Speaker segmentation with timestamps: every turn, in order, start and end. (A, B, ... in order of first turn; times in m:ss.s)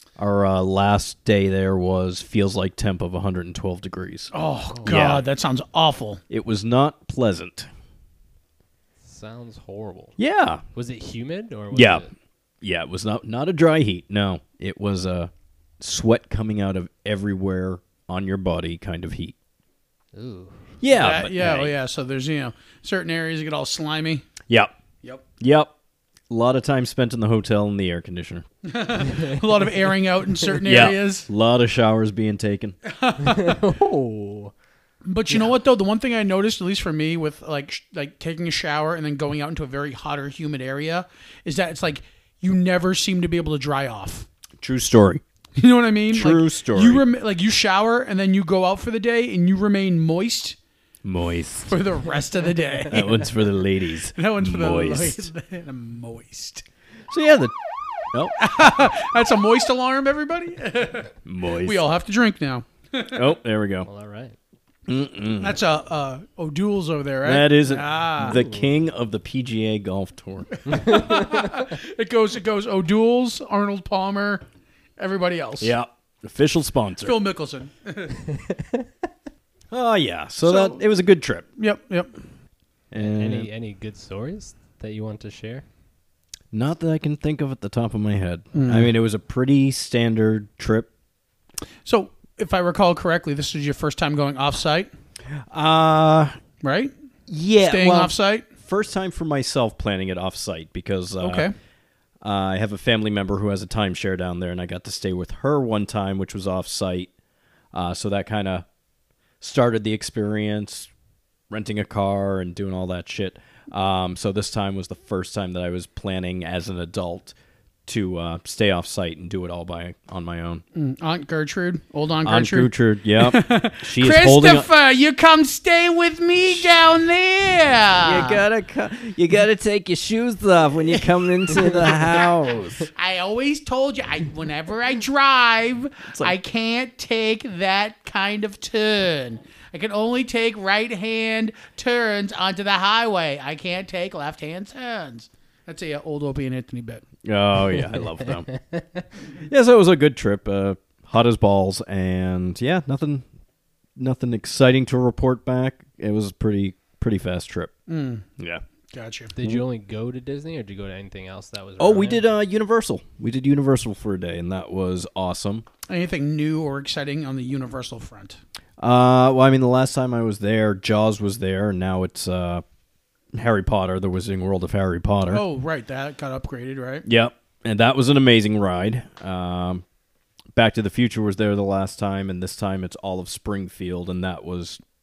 0:00.2-0:04.3 A
0:04.3-0:06.2 B
0:04.8-0:05.3 A
0:06.3-0:07.7 A
0:09.0-0:10.2 C
0:10.2-0:10.6 A
0:10.7-0:12.1 C
0:11.7-0:12.0 A
0:12.6-0:19.3 A
0:20.1-0:20.7 C
0:20.8-0:21.7 A
0:20.9-0:24.3 B
0:25.4-0:25.7 A
0:26.3-0:28.4 A
0:28.6-0:31.3 B
0:30.6-0:32.8 A
0:32.9-0:33.6 B
0:33.2-0:34.5 C
0:35.0-0:44.3 B
0:44.6-0:45.2 A
0:45.6-0:50.6 B
0:46.1-0:47.0 A
0:51.0-0:51.8 A
0:51.7-0:53.3 B
0:52.9-0:55.3 A
0:54.1-0:56.6 B
0:57.1-0:57.5 A
0:58.4-1:03.3 B
1:01.2-1:01.8 A
1:03.1-1:03.9 A
1:03.8-1:04.4 C
1:04.9-1:05.6 A
1:05.4-1:08.4 B
1:07.2-1:10.6 A
1:08.3-1:08.6 C
1:10.6-1:14.4 B
1:15.0-1:15.7 B
1:15.6-1:17.2 A
1:17.0-1:18.2 B
1:19.7-1:21.4 A
1:20.4-1:20.8 B
1:21.6-1:22.1 B
1:22.9-1:23.5 A
1:22.9-1:25.6 C
1:26.5-1:30.9 A
1:28.5-1:28.9 B
1:31.8-1:34.9 B
1:35.3-1:36.4 A
1:36.6-1:36.9 B
1:37.3-1:41.5 A
1:37.6-1:38.5 B
1:41.2-1:41.5 B
1:42.2-1:47.1 A
1:47.7-1:48.6 A
1:49.4-1:50.9 A
1:51.5-1:57.3 A
1:57.8-2:00.6 A
2:00.7-2:08.4 B
2:02.2-2:04.7 A
2:08.0-2:12.9 A
2:11.6-2:11.9 B
2:12.9-2:27.0 B
2:16.1-2:16.3 A
2:27.2-2:28.5 A
2:28.5-2:29.0 C
2:29.4-2:33.2 A
2:34.0-2:37.7 A
2:37.9-2:38.2 B
2:38.9-2:39.3 B
2:39.4-2:42.2 C
2:41.8-2:45.6 A
2:45.9-2:48.4 B
2:48.8-2:52.6 A
2:53.3-2:55.4 A
2:55.3-2:57.0 B
2:57.0-2:59.8 A
3:00.5-3:04.8 A